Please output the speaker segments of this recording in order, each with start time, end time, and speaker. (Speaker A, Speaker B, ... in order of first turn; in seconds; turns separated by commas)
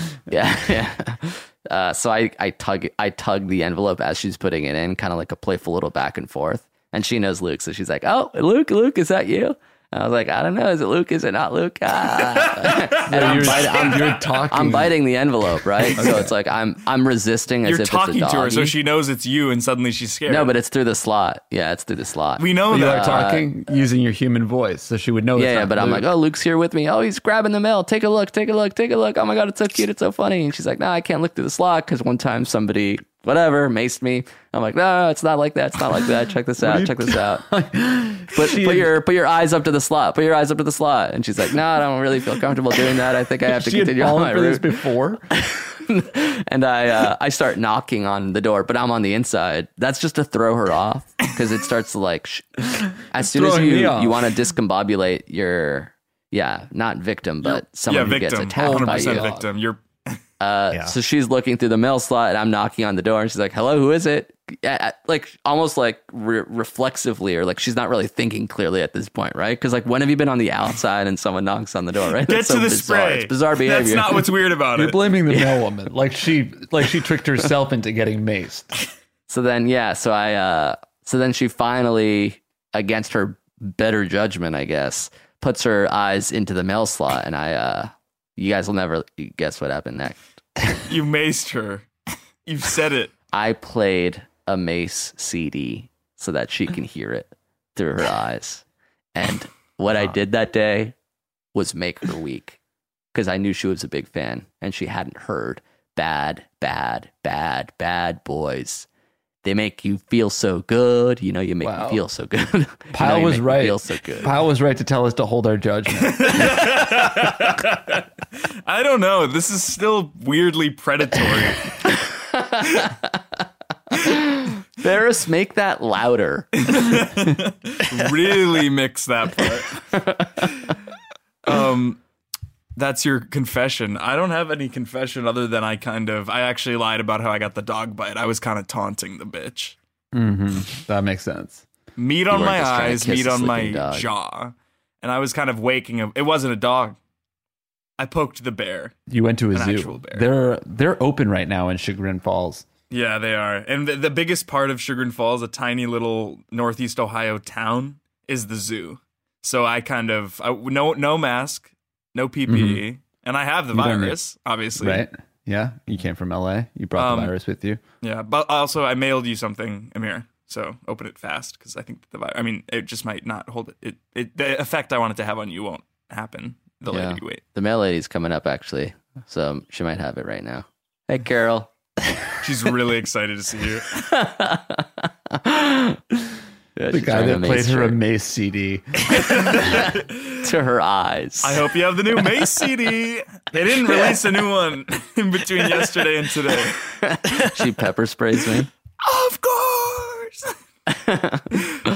Speaker A: 0.3-18.8, Speaker B: 12.2-14.1, Speaker C: 13.0-14.9, Speaker C: 15.9-16.3, Speaker B: 17.6-20.5, Speaker A: 20.3-23.5, Speaker B: 22.4-23.2, Speaker C: 22.7-26.1, Speaker A: 25.4-37.4, Speaker C: 36.6-39.0, Speaker A: 38.3-59.3, Speaker C: 43.4-45.2, Speaker C: 53.1-54.2, Speaker B: 57.4-60.2, Speaker C: 58.5-59.5, Speaker A: 60.4-74.3, Speaker B: 72.2-75.0, Speaker C: 74.7-78.7, Speaker A: 75.3-75.6, Speaker A: 79.3-90.2, Speaker B: 90.8-91.9, Speaker B: 92.5-93.1, Speaker A: 93.3-100.9, Speaker A: 101.5-102.6, Speaker A: 103.1-108.9, Speaker A: 109.4-114.3, Speaker C: 111.6-112.0, Speaker C: 112.9-116.9, Speaker B: 116.0-118.0, Speaker B: 118.7-121.7, Speaker A: 122.3-123.1, Speaker A: 123.9-126.8, Speaker B: 126.7-129.8, Speaker A: 129.9-130.4, Speaker B: 131.4-132.0, Speaker B: 132.8-139.7, Speaker C: 140.1-141.6, Speaker B: 142.0-147.0, Speaker A: 142.3-144.1, Speaker B: 148.0-148.9, Speaker C: 149.1-152.7, Speaker B: 149.5-150.2, Speaker B: 152.9-165.1, Speaker C: 162.5-162.8, Speaker C: 163.7-164.2, Speaker C: 164.8-167.8, Speaker B: 166.9-167.3, Speaker B: 168.0-177.4, Speaker A: 176.9-181.7, Speaker B: 182.4-184.0, Speaker A: 183.9-188.0, Speaker C: 186.9-189.6, Speaker B: 189.1-190.3, Speaker A: 189.6-191.7, Speaker B: 191.4-196.8, Speaker A: 196.8-198.7, Speaker B: 199.0-200.5, Speaker A: 200.9-201.6